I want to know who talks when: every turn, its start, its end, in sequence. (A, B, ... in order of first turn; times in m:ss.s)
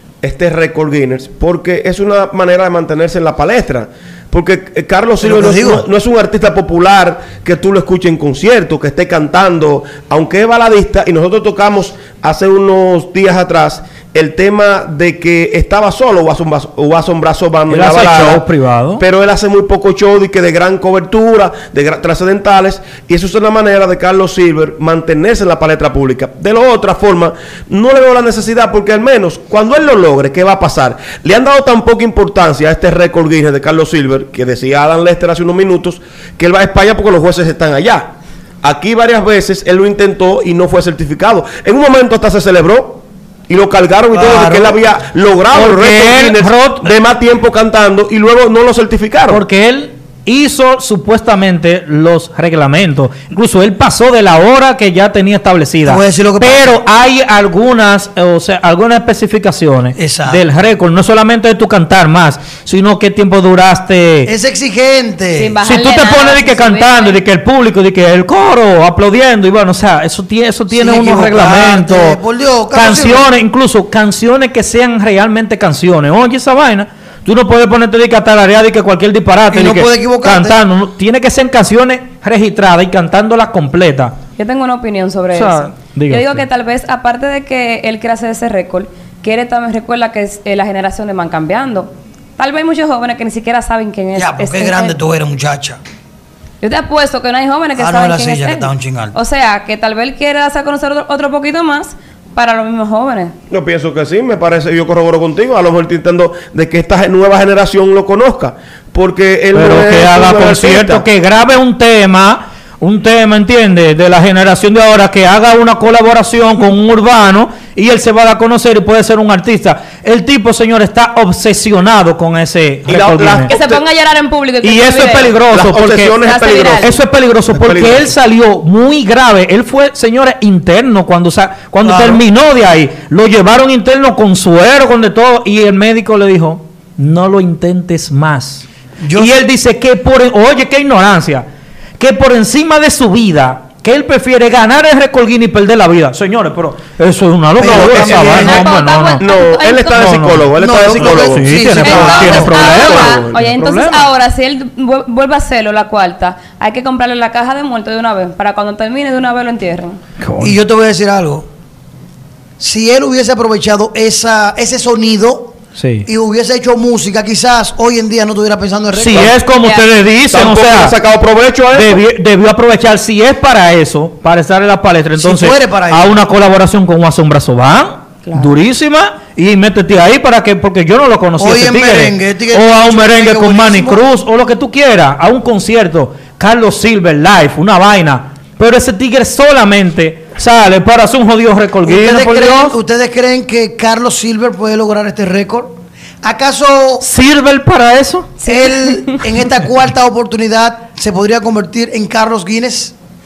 0:00.2-0:18.4 A
0:05.2-0:05.8 B
0:17.7-0:19.0 C
0:19.0-0:38.1 A
0:38.6-0:49.4 A
0:44.1-0:44.8 B
0:45.5-0:46.9 C
0:49.3-1:04.3 C
0:55.8-0:56.8 B
1:00.0-1:00.4 B
1:04.2-1:05.6 B
1:05.4-1:07.2 D
1:05.6-1:12.2 C
1:10.7-1:13.3 B
1:12.7-1:24.2 C
1:19.5-1:20.6 B
1:24.4-1:35.0 D
1:25.3-1:26.4 C
1:34.1-1:35.8 B
1:36.6-1:43.4 D
1:37.8-1:39.2 B
1:43.5-1:51.0 A
1:49.5-2:03.5 C
2:02.9-2:03.8 A
2:03.5-2:05.4 D
2:04.6-2:06.2 C
2:05.5-2:07.0 A
2:06.2-2:06.9 D
2:06.8-2:21.4 C
2:07.5-2:08.1 A
2:11.8-2:12.2 B
2:19.0-2:19.4 B
2:22.0-2:29.3 C
2:27.6-2:28.6 B
2:27.6-2:28.6 A
2:28.1-2:30.2 D
2:29.2-2:34.1 A
2:29.9-2:33.3 C
2:30.6-2:32.5 B
2:31.8-2:40.0 D
2:40.2-2:40.6 C
2:40.4-2:41.5 B
2:42.6-2:49.4 B
2:45.8-2:46.1 C
2:48.9-2:50.9 C
2:49.6-2:49.8 D
2:50.3-2:52.0 A
2:51.7-3:12.7 C
2:55.2-2:56.2 B
2:58.2-2:58.5 D
3:01.4-3:04.0 B
3:11.8-3:17.0 B
3:17.0-3:18.3 C
3:18.4-3:19.2 D
3:18.4-3:22.9 B